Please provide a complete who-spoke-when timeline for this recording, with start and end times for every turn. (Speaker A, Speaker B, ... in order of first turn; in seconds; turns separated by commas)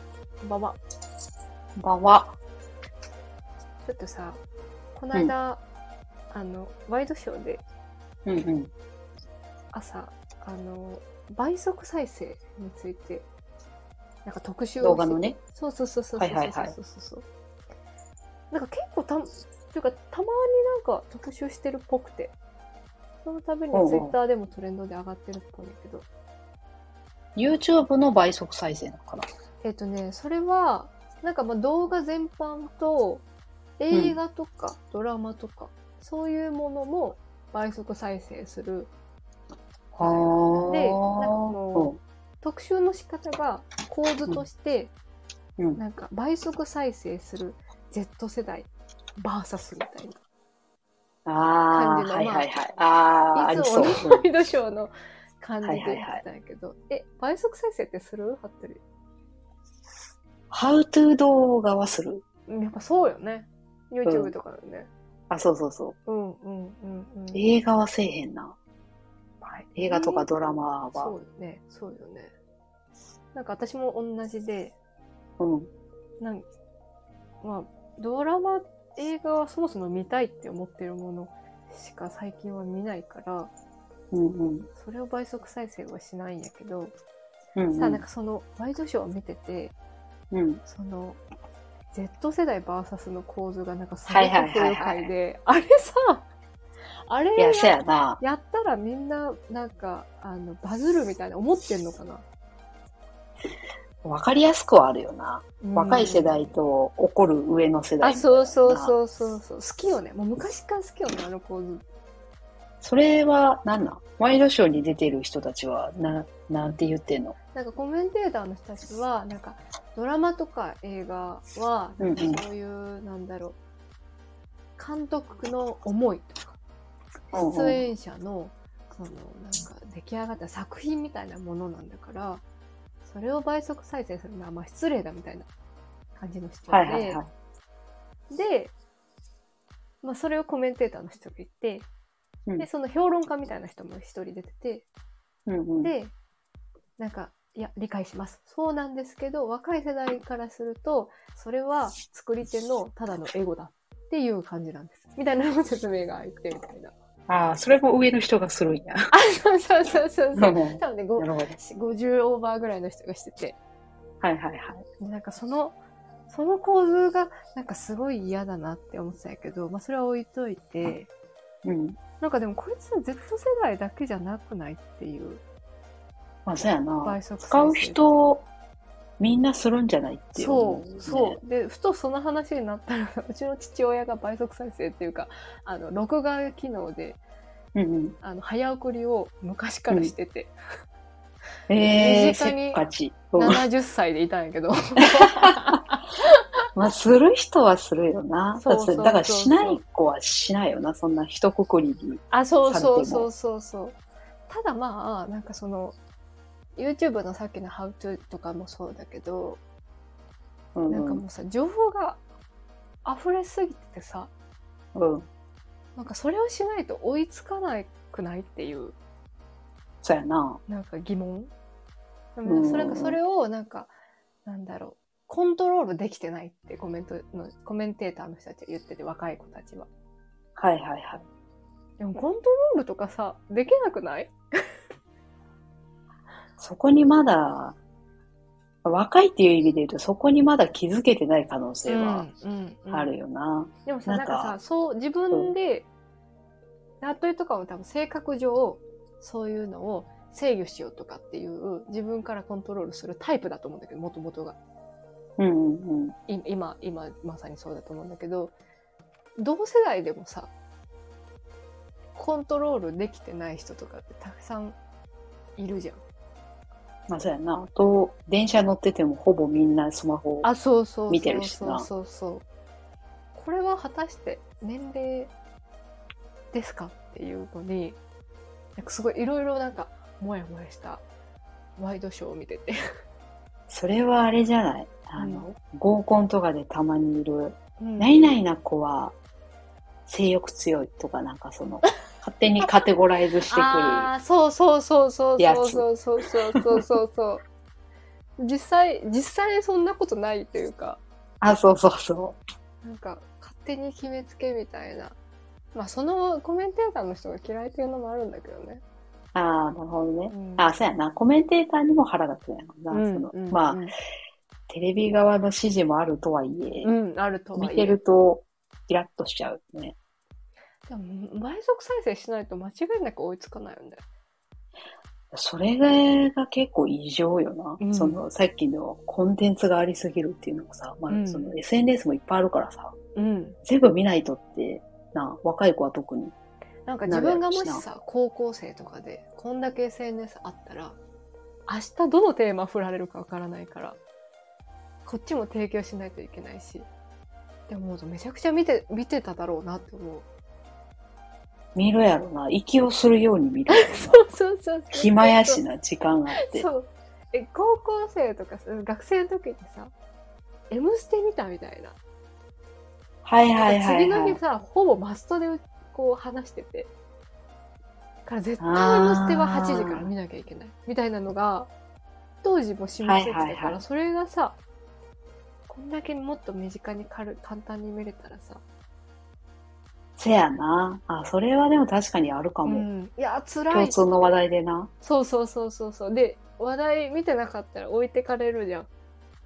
Speaker A: 0.4-0.8, Speaker B: 1.8-2.3, Speaker A: 3.8-4.4, Speaker A: 4.9-5.6, Speaker A: 6.3-7.6, Speaker B: 8.2-8.7, Speaker A: 9.7-13.3, Speaker A: 14.2-17.2, Speaker B: 14.8-15.4, Speaker B: 16.2-16.8, Speaker A: 18.5-22.3, Speaker A: 23.2-26.1, Speaker B: 23.7-24.1, Speaker B: 27.4-29.3, Speaker A: 29.6-33.2, Speaker A: 33.8-38.9, Speaker B: 33.9-34.2, Speaker B: 39.9-42.0, Speaker A: 40.0-44.9, Speaker A: 45.8-50.2, Speaker B: 51.2-54.2, Speaker A: 51.7-52.5, Speaker A: 53.3-58.8, Speaker B: 55.6-56.2, Speaker B: 60.5-62.2, Speaker A: 62.5-64.9, Speaker B: 64.0-64.3, Speaker B: 65.3-66.0, Speaker A: 66.1-67.4, Speaker B: 67.3-68.5, Speaker A: 69.4-70.3, Speaker B: 69.8-71.1, Speaker A: 70.9-72.3, Speaker A: 73.3-74.8, Speaker B: 75.4-75.7, Speaker A: 76.2-76.5, Speaker A: 77.4-83.5, Speaker B: 84.1-84.7, Speaker A: 84.8-86.9, Speaker B: 87.5-88.0, Speaker A: 87.7-89.7, Speaker B: 90.3-90.6, Speaker A: 90.7-91.2, Speaker A: 91.9-96.2, Speaker B: 94.1-95.1, Speaker A: 97.1-102.2, Speaker B: 97.4-98.2, Speaker B: 104.0-108.9, Speaker A: 105.6-106.5, Speaker A: 108.0-111.8, Speaker B: 112.8-117.3, Speaker A: 117.5-123.6, Speaker B: 122.0-122.4, Speaker A: 124.8-126.6, Speaker B: 127.3-127.8, Speaker A: 127.3-132.4, Speaker A: 133.0-135.5, Speaker A: 136.2-137.2, Speaker B: 136.7-137.3, Speaker A: 138.3-138.7, Speaker A: 140.0-141.9, Speaker A: 142.6-144.9, Speaker B: 145.5-145.9, Speaker A: 145.8-146.1, Speaker A: 147.0-156.9, Speaker B: 157.3-159.0, Speaker A: 159.1-163.6, Speaker B: 160.3-161.6, Speaker B: 164.2-164.8, Speaker A: 165.0-165.8, Speaker A: 166.3-171.1, Speaker B: 171.6-172.0, Speaker A: 172.2-175.4, Speaker B: 176.4-178.5, Speaker A: 177.0-178.2, Speaker B: 179.2-181.4, Speaker A: 180.3-187.2, Speaker B: 187.7-188.2, Speaker A: 188.2-190.5, Speaker B: 191.7-193.6, Speaker A: 191.9-192.8, Speaker A: 193.3-196.4, Speaker B: 195.2-195.8, Speaker B: 196.7-203.3, Speaker A: 198.6-199.8, Speaker A: 202.3-204.0, Speaker A: 204.5-206.0, Speaker A: 206.8-209.6, Speaker B: 210.7-211.2, Speaker A: 210.9-212.2, Speaker A: 213.0-214.3, Speaker B: 214.9-215.3, Speaker A: 215.9-218.9, Speaker B: 220.0-220.6, Speaker A: 220.7-221.5, Speaker A: 222.3-223.9, Speaker B: 222.4-223.2, Speaker A: 224.4-229.9, Speaker B: 230.6-231.2, Speaker A: 232.0-234.3, Speaker B: 236.6-237.8, Speaker B: 238.8-242.3, Speaker A: 241.9-243.1, Speaker B: 242.9-244.6, Speaker A: 243.8-245.9, Speaker A: 247.0-254.6, Speaker B: 255.4-256.1, Speaker A: 256.3-258.5, Speaker A: 259.4-260.5, Speaker A: 262.1-264.8, Speaker A: 265.6-266.0, Speaker B: 267.1-270.5, Speaker A: 270.4-272.4, Speaker B: 271.1-271.9, Speaker A: 273.3-275.3, Speaker A: 276.5-278.0, Speaker A: 278.8-281.0, Speaker A: 281.8-282.8, Speaker B: 283.7-289.1, Speaker A: 285.2-285.4, Speaker A: 287.8-288.3, Speaker B: 290.1-294.1, Speaker A: 293.5-297.4, Speaker B: 295.4-295.8, Speaker B: 296.5-296.8, Speaker A: 298.4-301.0, Speaker B: 301.4-302.4, Speaker A: 302.8-305.1, Speaker A: 305.7-308.8, Speaker B: 309.3-313.8, Speaker A: 310.3-310.7, Speaker A: 312.9-313.9, Speaker B: 314.7-316.9, Speaker A: 316.8-318.0, Speaker B: 317.6-319.9, Speaker A: 320.9-324.0, Speaker B: 325.3-332.9, Speaker A: 327.8-328.2, Speaker A: 331.1-331.5, Speaker A: 333.1-333.6, Speaker B: 333.6-336.3, Speaker A: 336.9-341.0, Speaker B: 337.1-337.8, Speaker A: 341.7-344.0, Speaker A: 345.0-346.9, Speaker A: 347.7-350.2, Speaker B: 351.7-354.2, Speaker A: 353.7-355.6, Speaker B: 354.9-356.7, Speaker A: 356.4-359.9, Speaker A: 360.7-362.0, Speaker B: 363.2-364.4, Speaker A: 363.6-366.9, Speaker A: 368.2-371.7, Speaker B: 368.6-370.1, Speaker A: 372.4-374.6, Speaker B: 373.0-373.8, Speaker A: 375.7-378.6, Speaker B: 380.2-382.9, Speaker A: 382.6-384.0, Speaker B: 383.7-384.9, Speaker A: 385.0-388.9